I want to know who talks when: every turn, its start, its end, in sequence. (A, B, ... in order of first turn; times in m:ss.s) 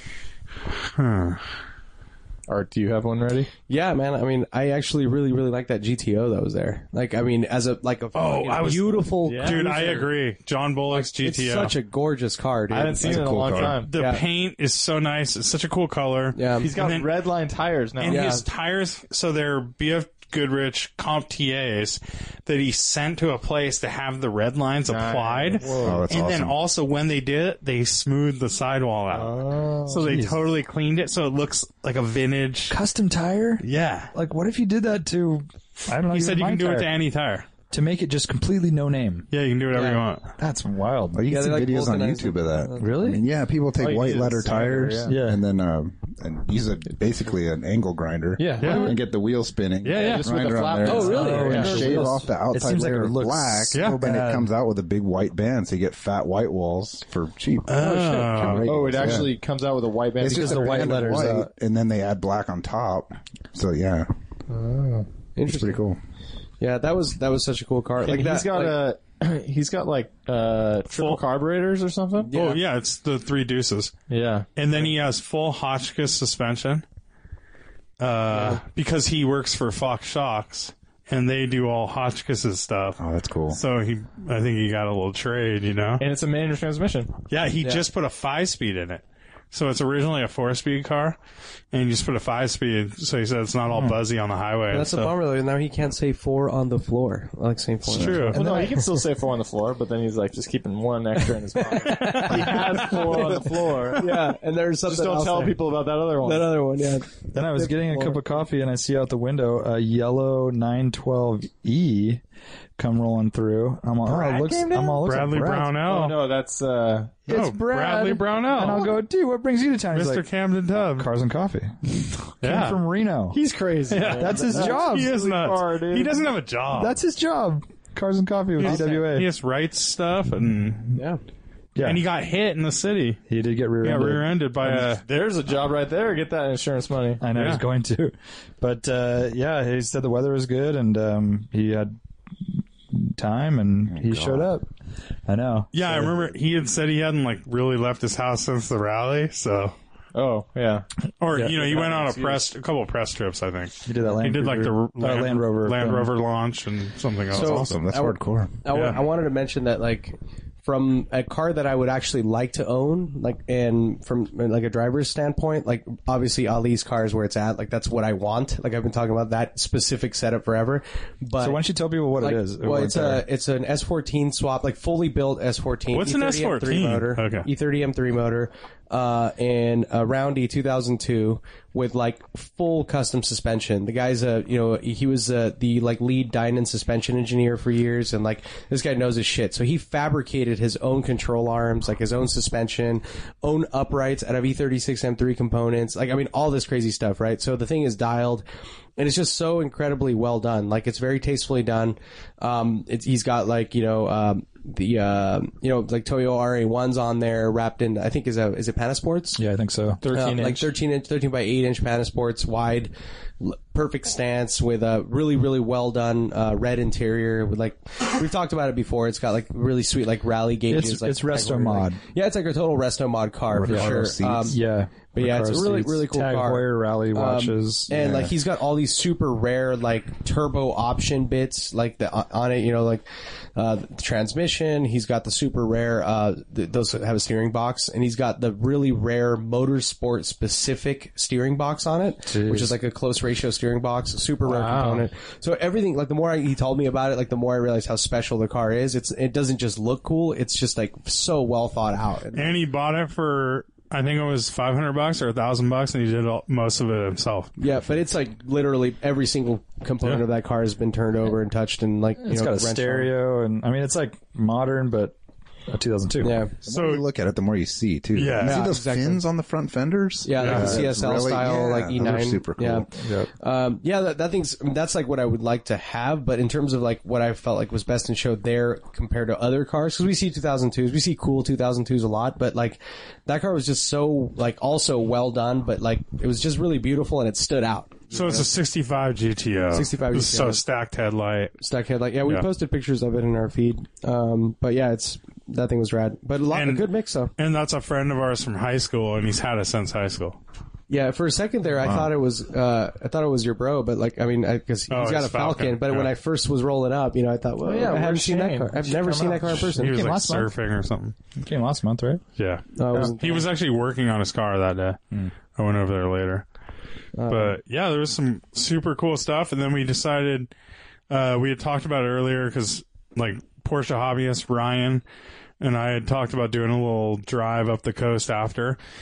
0:00.9-0:01.4 A
0:02.5-0:03.5 B
0:03.7-0:10.0 C
0:08.1-0:11.7 A
0:09.2-0:10.0 B
0:10.9-0:14.2 C
0:12.7-0:13.9 B
0:13.0-0:13.8 D
0:13.5-0:17.1 A
0:16.3-0:16.7 C
0:16.6-0:18.3 B
0:18.0-0:32.8 A
0:18.0-0:18.4 C
0:24.9-0:26.0 B
0:25.8-0:26.6 D
0:29.1-0:30.1 B
0:30.0-0:30.4 E
0:32.7-0:36.9 E
0:33.6-0:34.1 A
0:36.1-0:37.5 A
0:37.7-0:39.3 E
0:39.3-0:40.3 A
0:39.7-0:40.0 C
0:40.4-0:41.2 E
0:41.1-0:59.4 D
0:41.3-0:42.7 C
0:42.8-0:43.2 E
0:43.8-0:45.2 B
0:45.0-0:45.4 E
0:48.4-0:48.9 B
0:48.4-0:48.9 E
0:48.6-0:49.0 A
0:49.8-0:50.3 A
0:49.9-0:52.0 B
0:50.8-0:52.2 C
0:51.0-0:54.5 E
0:53.7-0:54.0 A
0:57.7-0:58.7 A
0:58.6-1:01.1 B
1:00.2-1:04.1 D
1:00.2-1:01.5 E
1:04.5-1:05.1 B
1:05.4-1:05.8 C
1:05.4-1:06.0 D
1:06.6-1:08.8 C
1:08.0-1:12.3 B
1:10.9-1:11.2 A
1:12.2-1:12.6 C
1:12.3-1:13.9 A
1:14.1-1:14.4 B
1:14.6-1:16.8 A
1:18.0-1:26.0 A
1:18.3-1:18.6 C
1:23.0-1:23.6 D
1:26.0-1:27.1 B
1:27.3-1:31.2 A
1:31.7-1:35.1 A
1:34.7-1:38.7 C
1:37.9-1:38.4 A
1:37.9-1:38.3 D
1:38.3-1:44.3 B
1:38.3-1:38.8 E
1:41.6-1:45.6 C
1:42.0-1:42.5 A
1:44.8-1:46.5 B
1:46.2-1:48.2 C
1:47.3-1:52.2 E
1:52.8-1:55.8 E
1:54.0-1:55.0 B
1:55.0-1:56.2 A
1:55.8-1:57.2 B
1:57.3-2:00.2 E
1:57.3-1:58.9 A
1:59.9-2:01.1 A
2:00.9-2:03.4 E
2:02.4-2:02.8 A
2:03.3-2:06.2 B
2:03.9-2:07.0 A
2:04.0-2:05.2 E
2:06.7-2:09.3 E
2:08.6-2:11.0 A
2:08.6-2:09.0 C
2:10.9-2:11.2 C
2:11.8-2:12.0 E
2:11.8-2:13.2 A
2:13.3-2:14.3 E
2:13.8-2:15.0 A
2:14.7-2:17.3 B
2:17.2-2:24.7 E
2:17.3-2:17.6 A
2:23.9-2:24.5 D
2:25.3-2:26.1 E
2:25.7-2:29.7 A
2:30.1-2:30.8 B
2:31.2-2:37.8 A
2:31.5-2:32.5 B
2:33.8-2:36.1 E
2:37.3-2:38.5 D
2:37.3-2:51.6 C
2:38.7-2:39.0 A
2:51.4-2:53.2 E
2:52.2-3:18.4 C
2:55.9-2:57.5 A
3:19.0-3:29.4 C
3:29.4-3:30.0 E
3:30.0-3:30.7 B
3:30.1-3:44.6 C
3:40.7-3:42.0 E
3:43.5-3:44.6 D
3:43.6-3:48.0 E
3:45.1-4:12.5 C
3:47.9-3:48.3 D
4:02.3-4:02.7 E
4:04.5-4:05.1 B
4:12.3-4:17.6 A
4:17.6-4:23.1 C
4:22.2-4:25.1 E
4:25.7-4:26.4 E
4:26.2-4:26.5 C
4:26.6-4:32.9 D
4:26.7-4:27.0 A
4:28.1-4:28.7 A
4:28.4-4:29.2 C
4:30.2-4:32.9 C
4:30.4-4:30.8 A
4:30.5-4:30.9 E
4:33.0-4:33.3 E
4:33.4-4:48.5 C
4:48.1-4:51.6 A
4:49.7-4:50.6 C
4:51.6-4:57.3 C
4:56.5-5:00.4 A
5:00.9-5:10.0 C
5:01.8-5:02.1 D
5:04.9-5:06.1 A
5:07.6-5:09.7 B
5:09.6-5:11.2 A
5:09.7-5:10.5 E
5:11.4-5:12.2 E
5:12.4-5:15.0 A
5:12.8-5:13.5 C
5:15.6-5:16.4 A
5:17.1-5:17.6 C
5:17.3-5:20.5 A
5:21.1-5:25.0 A
5:25.6-5:28.8 A